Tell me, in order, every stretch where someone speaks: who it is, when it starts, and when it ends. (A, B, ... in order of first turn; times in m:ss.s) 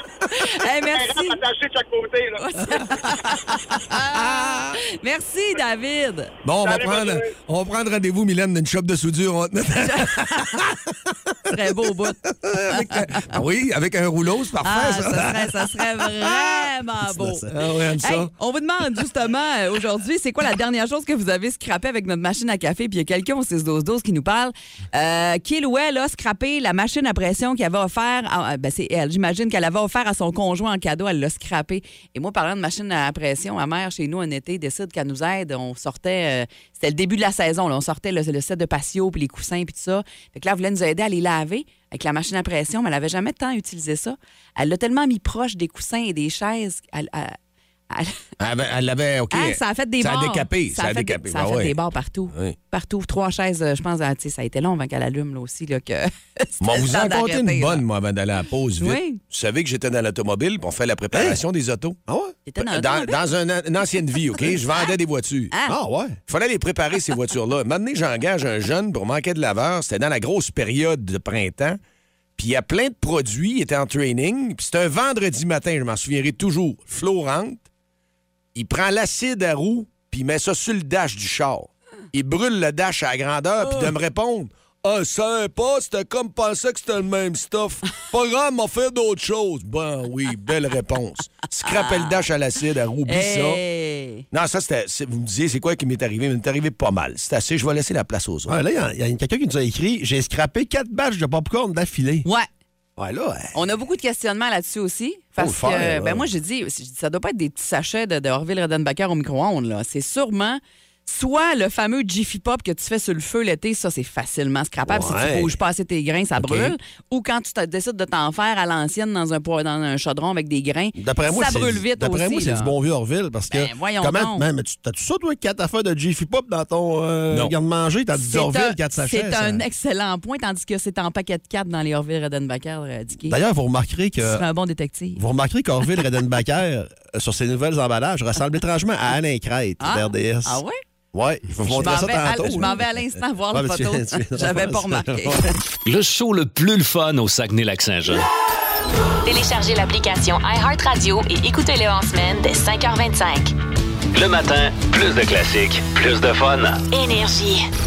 0:00.3-0:01.4 A
0:00.9-0:02.5 B
0:02.4-0:06.3 A
0:04.1-0:04.8 C
0:06.4-0:11.5 C
0:06.6-0:07.3 B
0:09.8-0:10.6 A
0:11.5-0:12.2 A
0:12.3-0:16.7 C
0:12.7-0:13.3 A
0:14.6-0:17.5 A
0:17.2-0:17.6 D
0:17.5-0:18.3 C
0:18.0-0:47.4 A
0:47.9-0:48.2 A
0:48.4-0:51.8 C
0:49.3-0:57.8 A
0:56.6-1:02.0 C
0:58.8-0:59.2 A
1:01.1-1:01.4 D
1:02.1-1:02.4 D
1:02.5-1:03.2 A
1:02.6-1:05.5 C
1:05.7-1:06.2 D
1:06.3-1:11.8 C
1:12.4-1:17.6 C
1:18.5-1:33.6 C
1:31.6-1:32.2 A
1:33.1-1:34.2 A
1:34.3-1:38.6 C
1:38.5-1:42.2 D
1:43.0-1:43.5 D
1:43.5-2:02.7 A
1:45.4-1:46.2 C
1:54.9-1:55.4 D
1:55.0-1:55.4 C
1:56.4-1:56.7 C
2:01.0-2:09.6 D
2:03.5-2:04.4 A
2:08.2-2:13.4 A
2:13.3-2:14.4 D
2:14.2-2:15.2 A
2:15.2-2:20.6 D
2:19.8-2:20.8 A
2:21.1-2:22.8 D
2:21.6-2:25.5 A
2:23.5-2:25.5 D
2:25.8-2:28.3 E
2:29.2-2:33.5 F
2:34.1-2:36.8 E
2:36.9-2:37.7 F